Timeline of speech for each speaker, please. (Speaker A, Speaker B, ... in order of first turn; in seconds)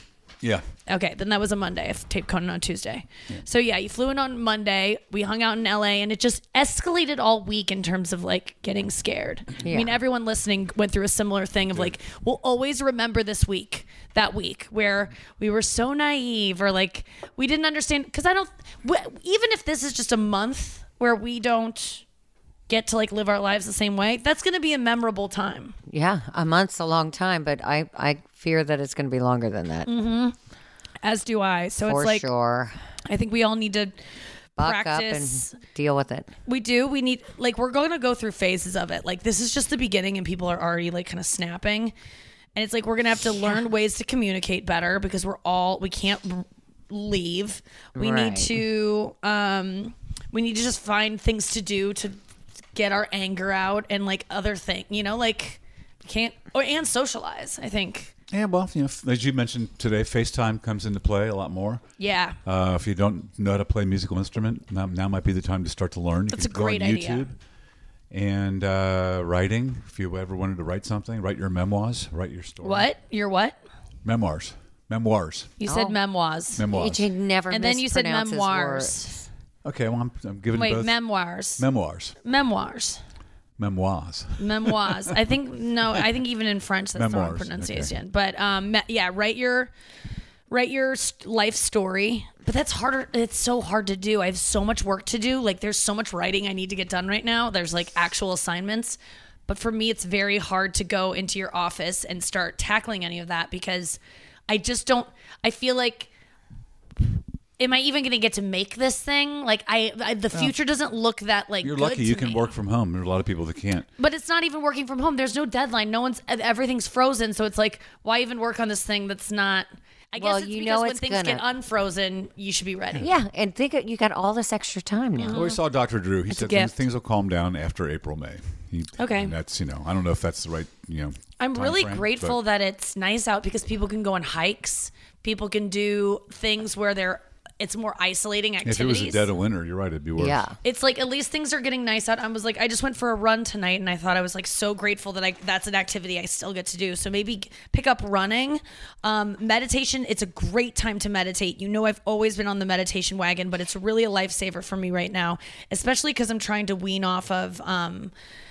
Speaker A: 0.9-22.0, 22.7-25.8, 29.9-30.3, 31.0-32.2, 33.0-34.0, 34.6-35.5, 36.5-41.9, 42.5-52.2, 52.7-58.1, 62.0-62.4, 66.3-67.2, 72.6-73.6, 75.6-76.6, 77.5-79.2, 80.5-81.6, 82.2-83.0, 84.4-89.7, 90.5-106.1, 107.6-112.5, 114.0-123.0, 125.2-125.6, 126.3-126.7, 129.0-129.3, 131.4-139.2, 140.6-158.1
Speaker B: 9.6-9.9, 25.9-29.9, 31.8-32.7, 34.6-36.3, 47.9-48.5, 75.7-76.0, 76.7-79.2, 120.2-121.4, 123.0-125.5, 140.2-140.6
Speaker C: 58.3-61.8, 62.4-67.3, 68.1-72.9, 74.0-75.5, 76.6-77.0, 79.6-80.9, 81.6-82.1, 83.6-85.1, 86.9-87.9, 111.6-113.9, 125.3-132.4, 138.6-140.4